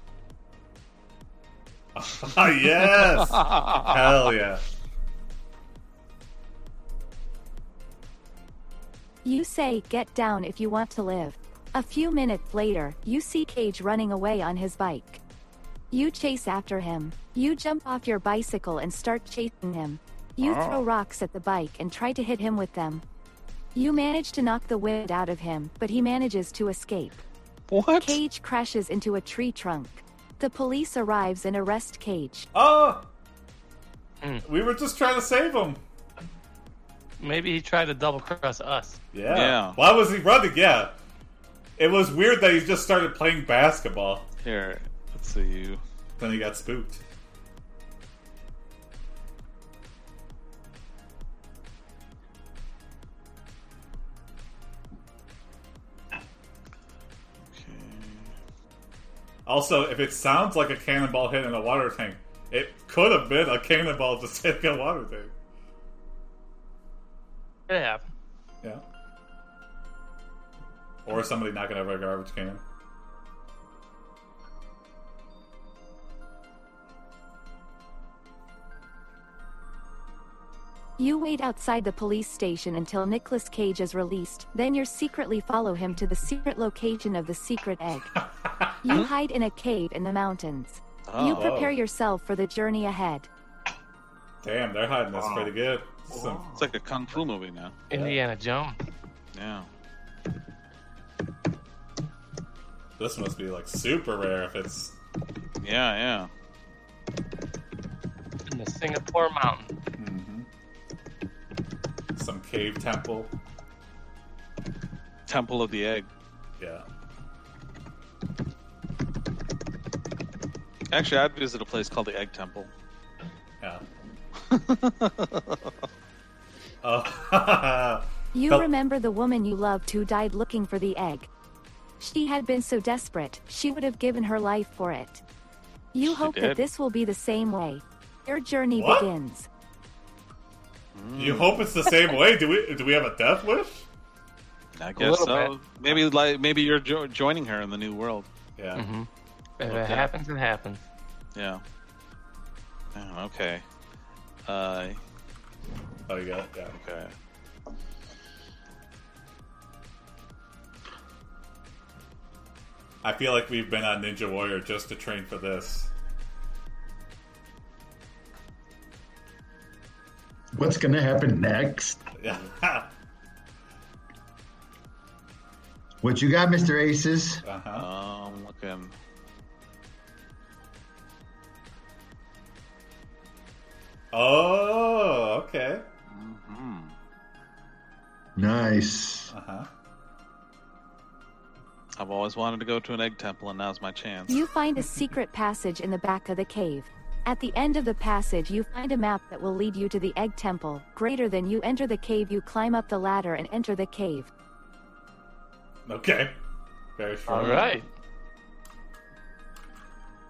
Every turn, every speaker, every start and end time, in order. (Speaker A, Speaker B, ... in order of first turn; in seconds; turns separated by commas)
Speaker A: 1.9-4.6, Speaker B: 9.2-15.2, Speaker B: 15.9-23.0, Speaker C: 20.4-20.8, Speaker B: 23.8-27.2, Speaker C: 27.7-28.2, Speaker B: 28.0-32.5, Speaker A: 32.5-33.1, Speaker A: 34.5-35.8, Speaker D: 37.2-39.0, Speaker A: 39.1-40.9, Speaker C: 39.3-39.8, Speaker A: 41.8-44.3, Speaker C: 44.4-45.8, Speaker A: 46.2-47.0, Speaker C: 57.5-58.4, Speaker A: 59.5-65.3, Speaker D: 67.7-68.0, Speaker A: 71.0-72.6, Speaker B: 81.0-88.1, Speaker A: 88.2-89.0, Speaker B: 88.8-93.3, Speaker C: 91.1-91.5, Speaker A: 91.2-91.8, Speaker A: 94.4-96.5, Speaker C: 95.2-95.5, Speaker C: 96.1-98.0, Speaker D: 97.9-98.8, Speaker C: 99.3-99.7, Speaker A: 103.0-105.0, Speaker C: 105.6-106.3, Speaker D: 108.5-109.8, Speaker A: 110.0-110.5, Speaker A: 112.2-113.3, Speaker C: 115.3-116.1, Speaker A: 116.6-116.8, Speaker C: 120.9-122.7, Speaker C: 124.5-125.6, Speaker A: 126.8-128.7, Speaker B: 128.3-131.3, Speaker B: 132.0-135.2, Speaker B: 135.9-139.5, Speaker C: 136.0-136.6, Speaker A: 138.8-139.1, Speaker C: 140.9-141.7, Speaker A: 141.2-143.9, Speaker C: 144.8-148.3, Speaker D: 145.0-145.6, Speaker A: 148.6-148.9, Speaker D: 148.8-150.8, Speaker C: 149.7-150.1, Speaker C: 151.3-151.6, Speaker C: 152.9-153.6, Speaker C: 154.4-155.0, Speaker A: 156.1-156.8, Speaker C: 156.7-157.1, Speaker A: 163.0-165.9, Speaker E: 170.6-172.0, Speaker A: 172.2-172.9, Speaker E: 176.0-177.4, Speaker A: 177.4-177.9, Speaker C: 177.7-178.9, Speaker A: 184.1-185.8, Speaker C: 186.1-186.9, Speaker E: 188.4-189.3, Speaker A: 189.3-189.7, Speaker C: 192.0-194.4, Speaker B: 194.3-204.3, Speaker A: 205.9-206.4, Speaker A: 207.0-207.8, Speaker D: 207.3-207.9